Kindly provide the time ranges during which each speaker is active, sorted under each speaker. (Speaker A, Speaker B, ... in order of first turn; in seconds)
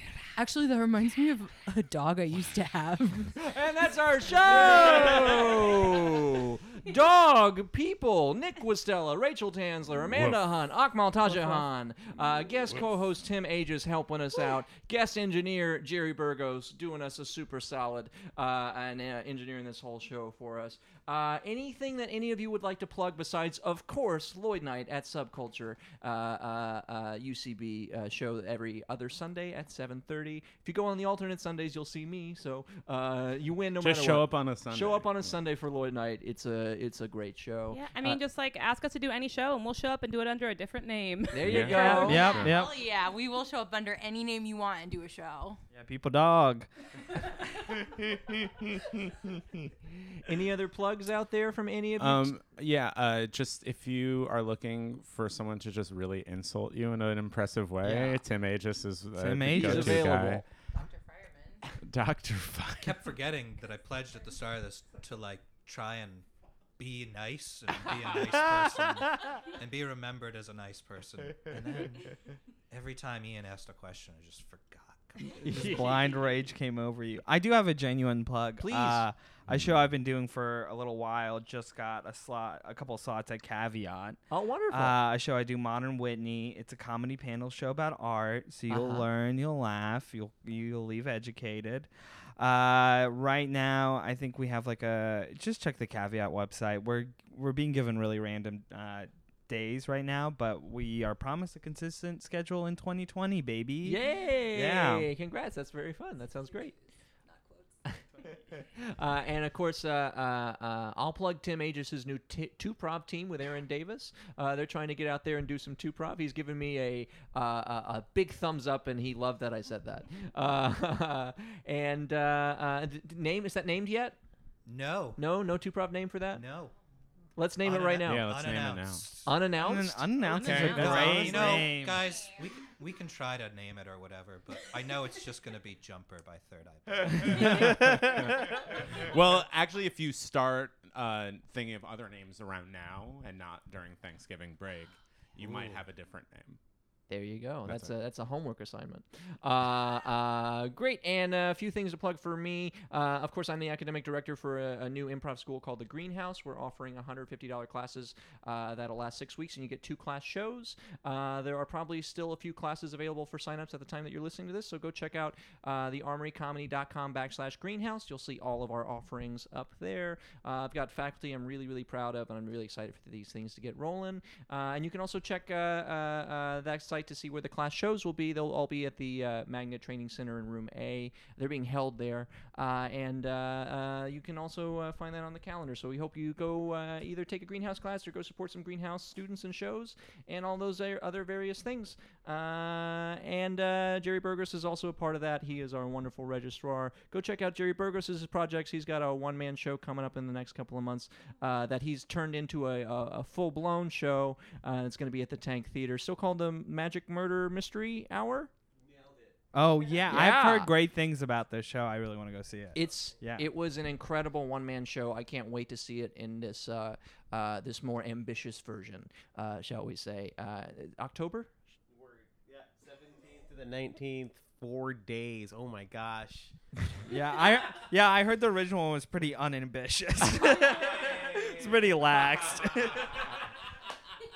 Speaker A: 0.3-3.4, 4.8-5.2, 42.0-45.6, 60.7-61.6, 106.5-107.7, 130.2-131.7
Speaker B: 3.4-38.2, 41.3-42.5, 50.2-52.3, 57.8-58.2, 59.5-60.5, 75.4-75.9, 78.6-79.1, 84.3-85.0, 88.7-89.1, 103.8-106.7, 107.9-124.2, 125.2-126.4, 127.4-128.3, 129.3-130.2, 147.1-208.5, 210.1-210.7, 212.8-221.5
Speaker C: 5.1-5.4, 10.0-10.4, 33.8-35.4, 41.4-42.6, 47.7-49.4, 52.0-60.4, 61.8-63.0, 79.5-79.9, 128.0-129.1, 130.4-131.3, 137.1-146.6, 147.7-147.9
Speaker D: 37.7-42.3
Speaker E: 41.5-42.7, 45.7-46.7, 59.1-60.2, 75.4-84.2, 84.7-104.0, 104.5-105.1, 129.6-132.0, 137.2-138.0, 209.5-213.5, 227.1-233.2
Speaker F: 62.8-66.3, 66.8-72.2, 72.7-76.2, 124.7-125.2, 126.3-126.7, 127.6-129.4, 130.4-138.0
Speaker G: 208.8-209.4, 221.9-226.5, 230.8-231.4